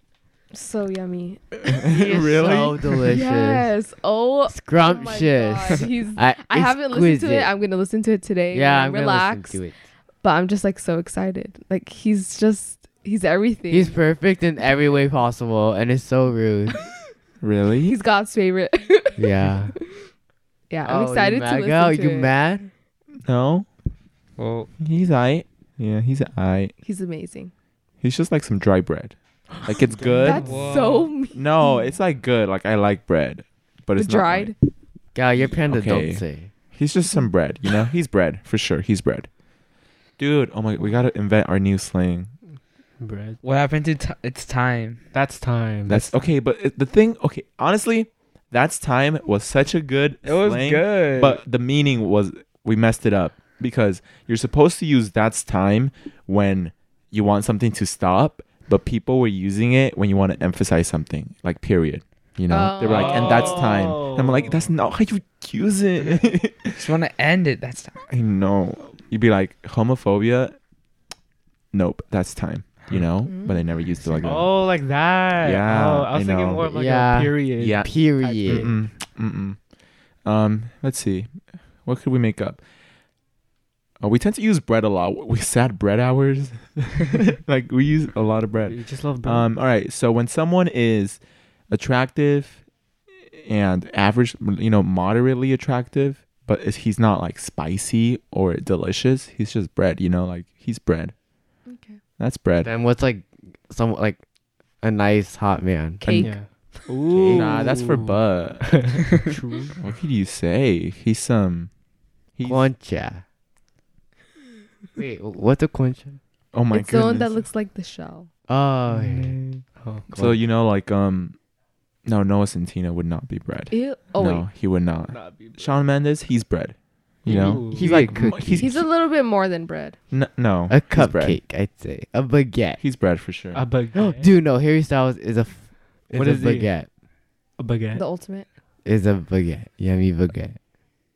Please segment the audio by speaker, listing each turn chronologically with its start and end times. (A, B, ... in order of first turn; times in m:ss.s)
0:00.5-0:01.6 A
0:01.7-0:03.0 B
0:01.9-0:03.7 C
0:03.1-0:09.6 A
0:04.5-0:07.5 C
0:08.5-0:09.7 C
0:10.2-0:14.0 A
0:13.7-0:16.8 C
0:17.4-0:18.0 B
0:17.9-0:19.3 A
0:19.2-0:19.7 C
0:20.7-0:22.3 A
0:20.8-0:22.7 C
0:23.2-0:23.7 B
0:24.4-0:24.7 D
0:24.8-0:26.7 B
0:26.8-0:27.5 A
0:28.0-0:30.6 B
0:30.1-0:30.6 E
0:30.2-0:31.9 A
0:30.4-0:31.1 D
0:31.3-0:34.5 B
0:33.9-0:34.6 A
0:35.1-0:36.5 C
0:35.4-0:39.3 B
0:40.2-0:42.3 B
0:43.0-0:43.4 E
0:43.4-0:45.0 D
0:45.1-0:46.1 E
0:45.9-1:06.9 B
0:50.2-0:51.4 D
1:02.5-1:03.6 A
1:02.8-1:04.6 E
1:06.7-1:08.0 D
1:08.1-1:10.6 B
1:11.7-1:14.7 B
1:13.2-1:13.6 A
1:14.2-1:18.8 E
1:15.4-1:16.7 B
1:16.7-1:18.7 C
1:17.6-1:17.9 B
1:18.4-1:19.6 B
1:20.2-1:22.6 B
1:24.0-1:32.6 B
1:28.6-1:29.5 E
1:33.3-1:41.1 B
1:41.6-1:42.0 A
1:42.2-1:42.7 B
1:42.6-1:44.2 C
1:44.8-1:46.0 C
1:46.0-1:46.4 A
1:46.0-1:46.3 B
1:46.2-1:49.8 E
1:47.0-1:47.6 C
1:47.3-1:49.0 B
1:49.8-1:51.7 B
1:52.4-1:52.7 B
1:52.4-1:53.2 C
1:55.0-1:56.2 C
1:56.5-1:57.4 B
1:56.7-1:58.3 A
1:58.5-1:59.4 C
1:58.9-2:00.1 E
2:00.1-2:00.4 C
2:00.1-2:01.4 B
2:02.0-2:08.9 B
2:03.7-2:04.5 A
2:05.1-2:05.8 E
2:07.2-2:08.2 E
2:07.3-2:08.7 C
2:08.6-2:10.0 A
2:10.1-2:11.4 B
2:10.7-2:12.8 C
2:12.8-2:13.6 B
2:13.5-2:14.3 E
2:13.9-2:16.9 C
2:16.1-2:16.7 E
2:17.6-2:18.0 E
2:17.9-2:18.5 A
2:18.8-2:20.6 C